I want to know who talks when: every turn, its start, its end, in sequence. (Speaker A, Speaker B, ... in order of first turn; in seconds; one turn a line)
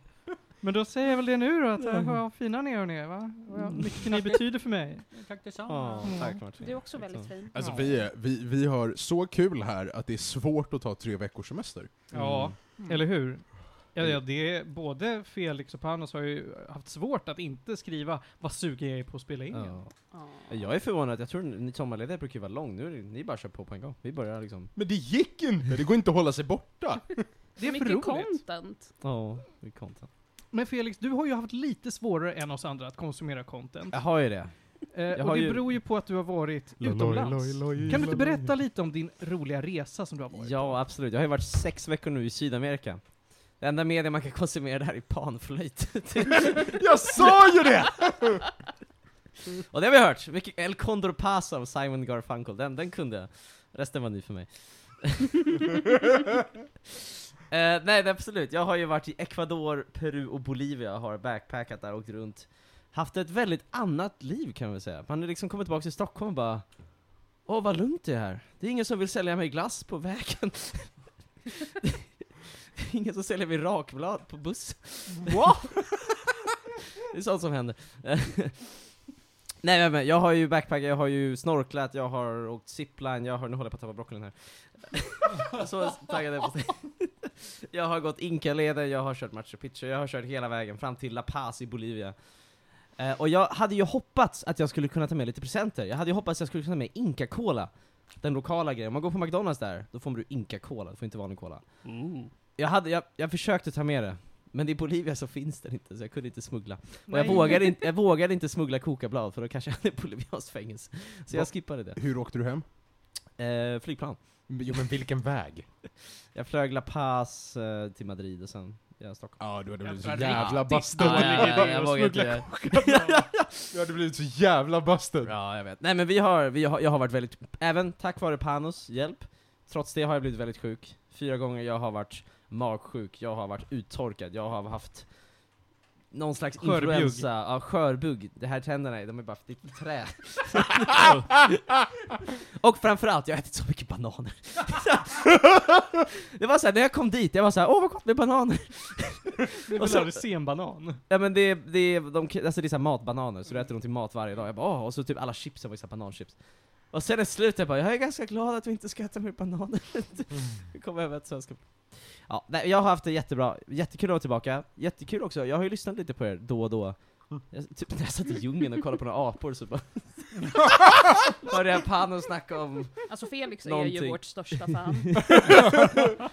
Speaker A: 0.6-5.1
Speaker B: 3.6-4.6
Speaker B: 5.1-6.2
Speaker C: 5.7-7.3
Speaker A: 6.1-6.4
Speaker D: 6.6-7.8
Speaker E: 7.5-11.9
Speaker B: 7.6-7.8
Speaker A: 12.1-19.7
Speaker C: 12.1-12.6
Speaker B: 12.2-13.0
Speaker C: 19.5-24.7
Speaker D: 20.1-20.6
Speaker E: 24.8-27.3
Speaker A: 27.6-28.4
Speaker D: 27.6-28.9
Speaker C: 29.0-30.1
Speaker A: 30.5-34.0
Speaker C: 33.9-35.7
Speaker A: 34.9-40.8
Speaker E: 36.8-38.5
Speaker C: 40.3-46.8
Speaker E: 46.5-48.5
Speaker C: 49.6-55.6
Speaker C: 57.5-72.0
Speaker C: 72.7-75.8
Speaker C: 77.1-78.9
Speaker C: 79.6-102.0
Speaker B: 101.8-102.3
Speaker C: 102.6-112.0
Speaker A: 107.1-107.7
Speaker E: 111.3-112.7
Speaker C: 113.4-114.5
Speaker E: 114.5-115.7
Speaker C: 116.1-123.7
Speaker E: 119.4-121.8
Speaker A: 119.8-123.3
Speaker E: 123.7-125.3
Speaker C: 125.2-135.2
Speaker C: 136.1-141.4
Speaker A: 136.6-137.3
Speaker B: 141.0-141.2
Speaker C: 142.6-150.2
Speaker A: 149.7-151.0
Speaker C: 151.1-173.1
Speaker D: 173.1-175.3
Speaker C: 173.6-176.0